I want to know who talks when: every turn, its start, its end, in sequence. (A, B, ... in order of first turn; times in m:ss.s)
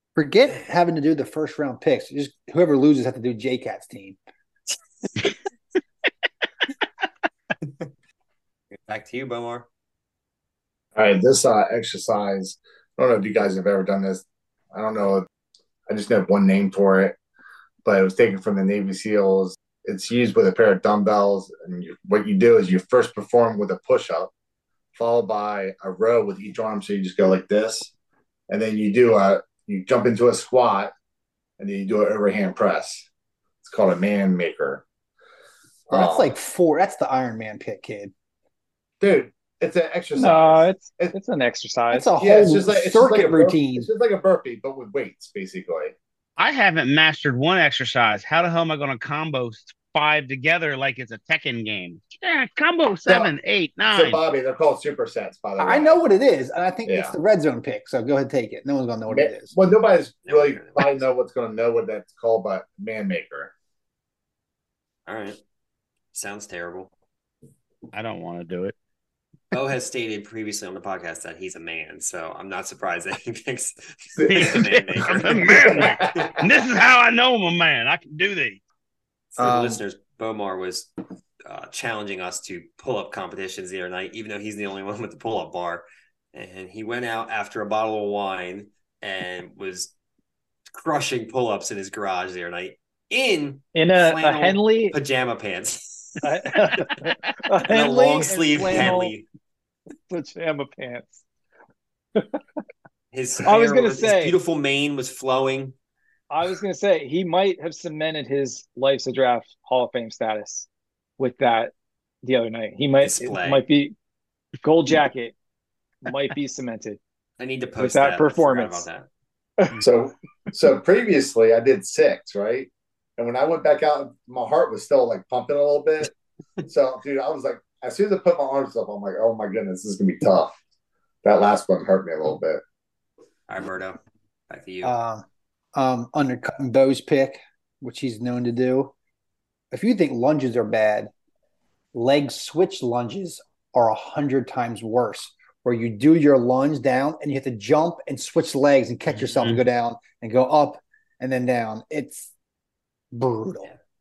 0:00.1-0:04.2 A
0:08.7-0:09.7 B
0:11.0-0:15.3 C
0:15.9-0:17.2 C
0:17.8-0:24.3 C
0:25.0-0:27.9 C
0:28.5-0:30.9 C
0:31.6-0:33.0 C
0:33.6-0:34.8 C
0:35.9-0:36.3 C
0:35.9-0:38.1 A
0:39.0-0:41.1 C
0:40.1-0:42.1 D
0:41.9-0:43.9 A
0:42.2-0:46.0 C
0:46.4-0:54.2 E
0:53.9-0:56.0 C
0:55.6-0:59.5 A
0:56.9-0:57.1 C
0:59.1-1:03.5 C
1:00.2-1:01.0 B
1:05.1-1:05.4 B
1:06.1-1:06.9 B
1:07.9-1:08.7 E
1:09.5-1:16.4 B
1:14.2-1:14.5 C
1:14.3-1:18.6 E
1:15.2-1:16.4 C
1:19.3-1:20.9 B
1:19.4-1:19.8 A
1:21.4-1:29.9 B
1:30.7-1:36.2 B
1:33.7-1:35.0 D
1:36.2-1:39.2 D
1:37.6-1:39.3 B
1:40.1-1:41.2 D
1:42.2-1:42.4 D
1:43.1-1:45.8 B
1:43.4-1:44.4 D
1:46.3-1:50.7 D
1:51.2-1:53.9 D
1:53.0-1:53.6 B
1:54.6-1:55.3 D
1:56.0-1:57.0 D
1:57.4-1:59.1 B
1:57.8-1:58.9 D
1:59.8-2:06.1 C
2:06.7-2:10.6 C
2:11.2-2:12.6 C
2:13.5-2:15.0 B
2:14.8-2:18.9 A
2:19.7-2:21.1 A
2:21.9-2:32.3 A
2:29.1-2:29.6 E
2:33.1-2:33.7 A